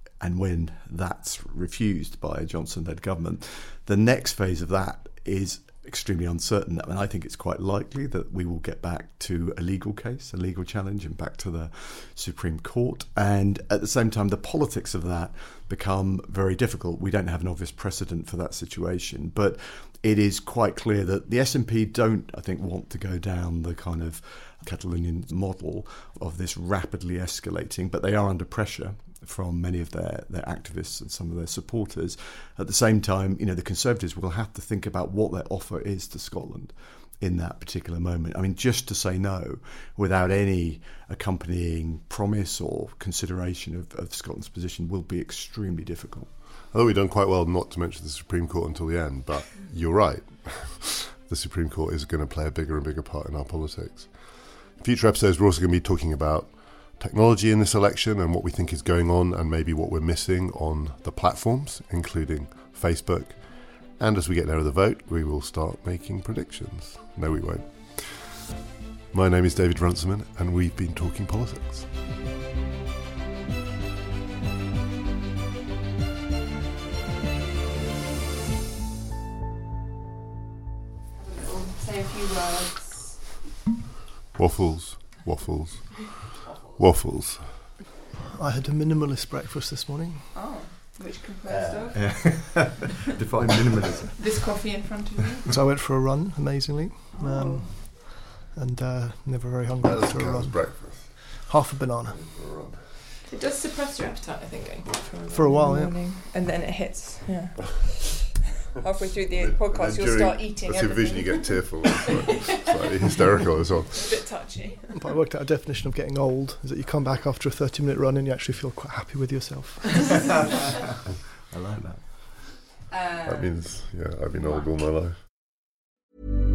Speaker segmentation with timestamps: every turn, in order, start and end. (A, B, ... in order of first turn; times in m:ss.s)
0:00.2-0:46.3 A
0:46.7-1:08.5 B
1:09.1-1:11.9 B
1:21.2-1:23.4 C
1:24.4-1:27.6 B
1:26.4-1:26.8 C
1:28.3-1:30.3 D
1:30.3-1:32.8 C
1:31.5-1:34.3 A
1:34.2-1:35.5 C
1:35.5-1:42.3 D
1:37.2-1:37.9 C
1:39.8-1:41.5 B
1:42.0-1:42.9 B
1:43.2-1:53.3 C
1:45.3-1:46.0 D
1:49.4-1:54.3 B
1:53.9-1:55.0 C
1:54.9-2:00.2 D
2:01.5-2:02.3 A
2:02.9-2:03.5 C
2:03.2-2:05.2 B
2:04.3-2:04.7 C